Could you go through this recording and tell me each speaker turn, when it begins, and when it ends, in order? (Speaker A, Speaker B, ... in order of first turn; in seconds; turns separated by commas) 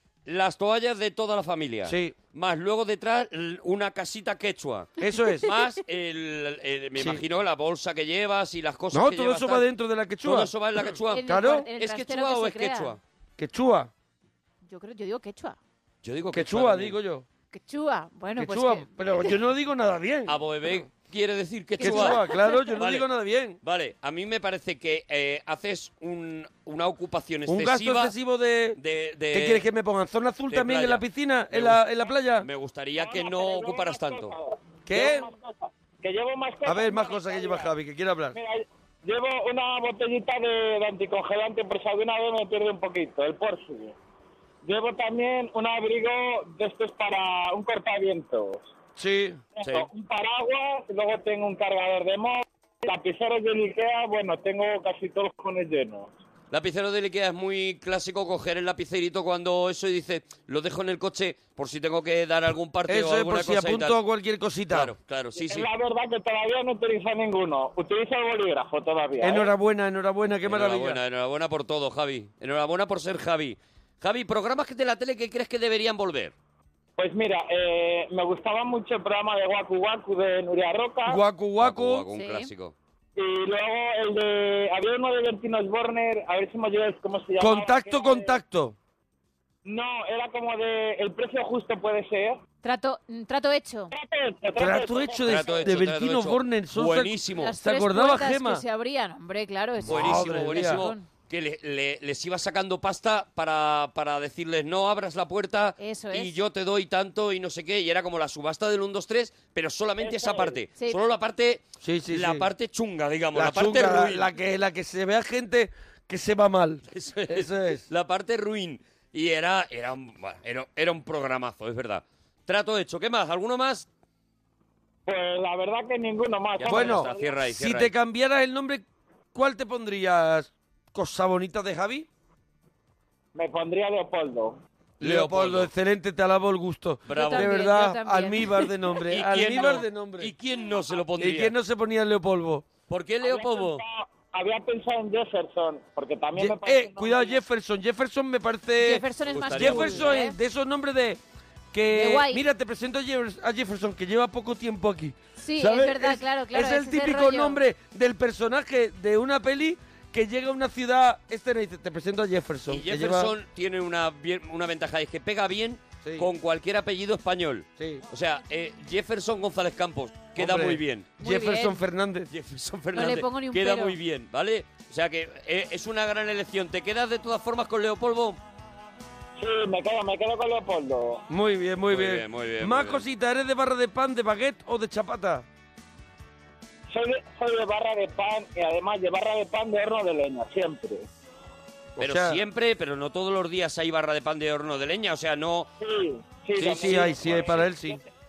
Speaker A: 0.2-4.9, Speaker B: 1.8-2.1, Speaker B: 5.0-5.5, Speaker A: 5.4-9.7, Speaker B: 7.0-7.2, Speaker B: 8.9-10.5, Speaker A: 10.2-13.0, Speaker C: 11.1-12.9, Speaker B: 11.2-11.7, Speaker B: 13.4-13.9, Speaker C: 14.6-15.6, Speaker A: 16.0-17.0, Speaker B: 16.3-17.2, Speaker C: 17.5-18.9, Speaker B: 18.4-20.4, Speaker A: 20.3-22.2, Speaker C: 21.8-22.8, Speaker B: 21.8-23.6, Speaker A: 22.8-23.1, Speaker A: 23.6-28.1, Speaker B: 27.5-28.8, Speaker A: 28.8-29.6, Speaker B: 29.3-32.5, Speaker A: 30.5-31.8, Speaker A: 32.4-34.3, Speaker D: 32.9-37.7, Speaker B: 34.9-35.3, Speaker B: 36.6-38.4, Speaker D: 38.3-43.9, Speaker D: 44.6-48.7, Speaker B: 49.0-49.4, Speaker D: 49.6-56.1, Speaker A: 49.6-49.9, Speaker A: 56.5-64.0, Speaker B: 62.9-64.9, Speaker A: 64.7-65.7, Speaker D: 65.4-69.5, Speaker B: 69.2-71.0, Speaker A: 70.4-76.3, Speaker D: 77.0-81.2, Speaker B: 81.0-82.0, Speaker A: 81.6-82.7, Speaker C: 82.1-82.5, Speaker D: 83.2-88.4, Speaker B: 87.4-88.8, Speaker D: 89.6-92.4, Speaker C: 92.6-93.9, Speaker D: 93.9-95.8, Speaker B: 94.5-98.6, Speaker A: 95.2-97.5, Speaker C: 97.4-101.0, Speaker A: 99.8-114.3, Speaker B: 99.8-100.8, Speaker C: 105.8-106.4, Speaker D: 110.0-110.6, Speaker B: 111.8-112.5, Speaker B: 113.3-117.8, Speaker A: 116.9-123.9, Speaker D: 125.0-127.3, Speaker A: 126.6-127.9, Speaker B: 126.7-132.1, Speaker D: 133.3-134.6, Speaker B: 135.0-140.3, Speaker A: 135.0-135.7, Speaker A: 137.1-137.6, Speaker C: 137.1-138.7, Speaker A: 139.1-141.5, Speaker B: 141.2-142.7, Speaker A: 142.9-143.8, Speaker D: 143.2-147.4, Speaker B: 146.3-151.2, Speaker C: 148.8-150.4, Speaker A: 149.3-150.2, Speaker B: 151.7-163.3, Speaker C: 151.9-152.4, Speaker C: 155.4-157.6, Speaker A: 162.7-171.1, Speaker B: 166.0-166.3, Speaker B: 167.8-168.0, Speaker B: 170.3-172.3, Speaker C: 171.2-171.8, Speaker A: 172.3-178.4, Speaker C: 172.9-174.0, Speaker D: 179.4-181.2, Speaker B: 181.3-185.4, Speaker A: 181.9-183.0, Speaker D: 186.9-191.1, Speaker B: 192.0-192.4, Speaker A: 192.0-195.7, Speaker D: 195.8-198.0, Speaker B: 196.6-198.0, Speaker A: 196.6-197.5